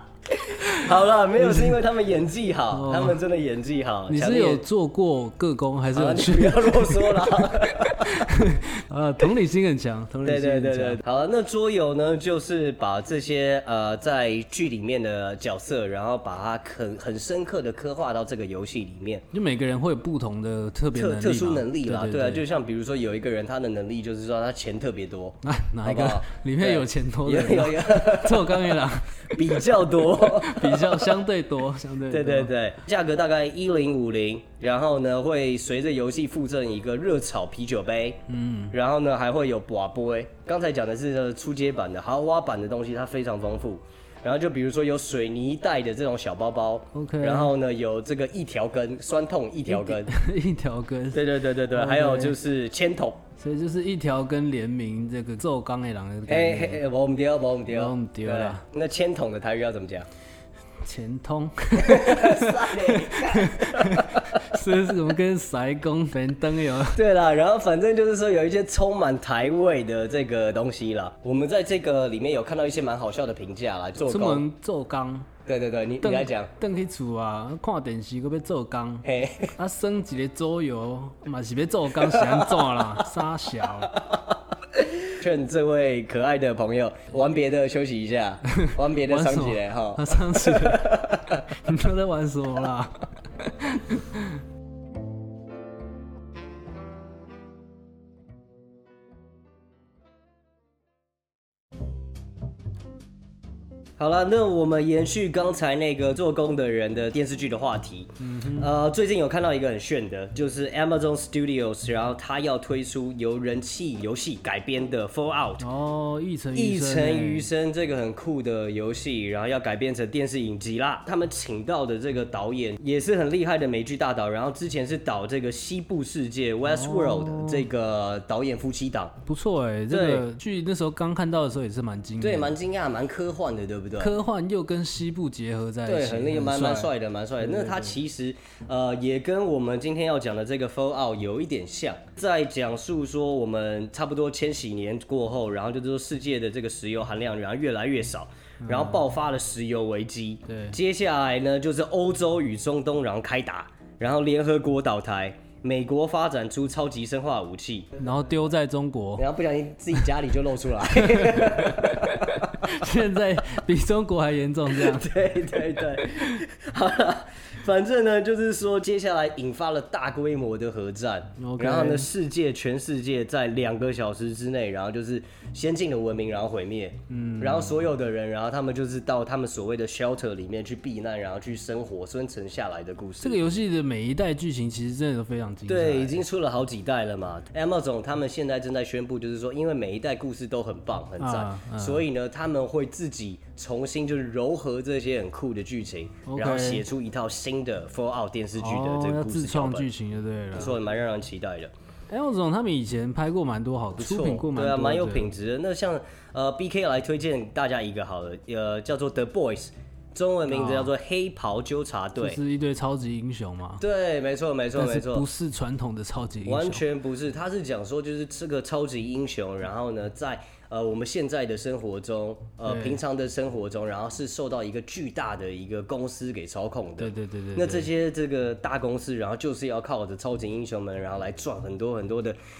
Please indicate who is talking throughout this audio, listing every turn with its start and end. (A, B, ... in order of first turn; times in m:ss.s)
0:00.3-0:04.6 A
0:01.4-0:01.8 B
0:02.7-0:03.2 B
0:04.1-0:11.0 B
0:05.9-0:08.3 A
0:10.2-0:19.2 A
0:19.3-0:22.4 B
0:20.9-0:31.2 A
0:25.4-0:32.5 B
0:32.1-0:50.1 A
0:38.3-0:38.7 B
0:46.9-0:47.5 B
0:49.7-0:52.4 B
0:51.1-0:53.2 A
0:53.4-0:56.8 B
0:56.3-1:00.1 A
0:57.7-0:58.6 B
1:00.8-1:07.0 B
1:01.8-1:04.4 A
1:06.9-1:14.4 A
1:14.0-1:15.3 B
1:15.4-1:16.5 A
1:16.0-1:24.0 B
1:19.0-1:19.5 A
1:22.0-1:22.8 A
1:24.8-1:31.4 A
1:28.5-1:34.4 B
1:44.0-1:55.6 A
1:48.2-1:48.7 B
1:55.6-1:57.5 B
1:56.5-2:09.2 A
2:06.6-2:07.6 B
2:09.2-2:12.5 B
2:09.9-2:10.2 A
2:12.2-2:14.2 A
2:14.0-2:18.0 B
2:15.9-2:37.9 A
2:28.6-2:29.0 B
2:30.5-2:30.8 B
2:38.0-2:39.2 B
2:39.2-2:42.6 A
2:40.9-2:45.1 B
2:44.7-3:03.4 A
2:51.4-2:52.1 B
2:57.1-2:57.8 B
3:03.2-3:06.2 B
3:05.7-3:19.9 A
3:11.2-3:12.0 B
3:16.3-3:16.8 B
3:18.6-3:20.8 B
3:20.5-3:21.7 A
3:22.1-3:25.3 B
3:24.0-3:32.4 A
3:30.5-3:30.9 B
3:32.2-3:33.8 B
3:33.8-3:35.3 A
3:34.7-3:36.8 B
3:36.4-3:52.4 A
3:42.6-3:43.0 B
3:47.0-3:47.9 B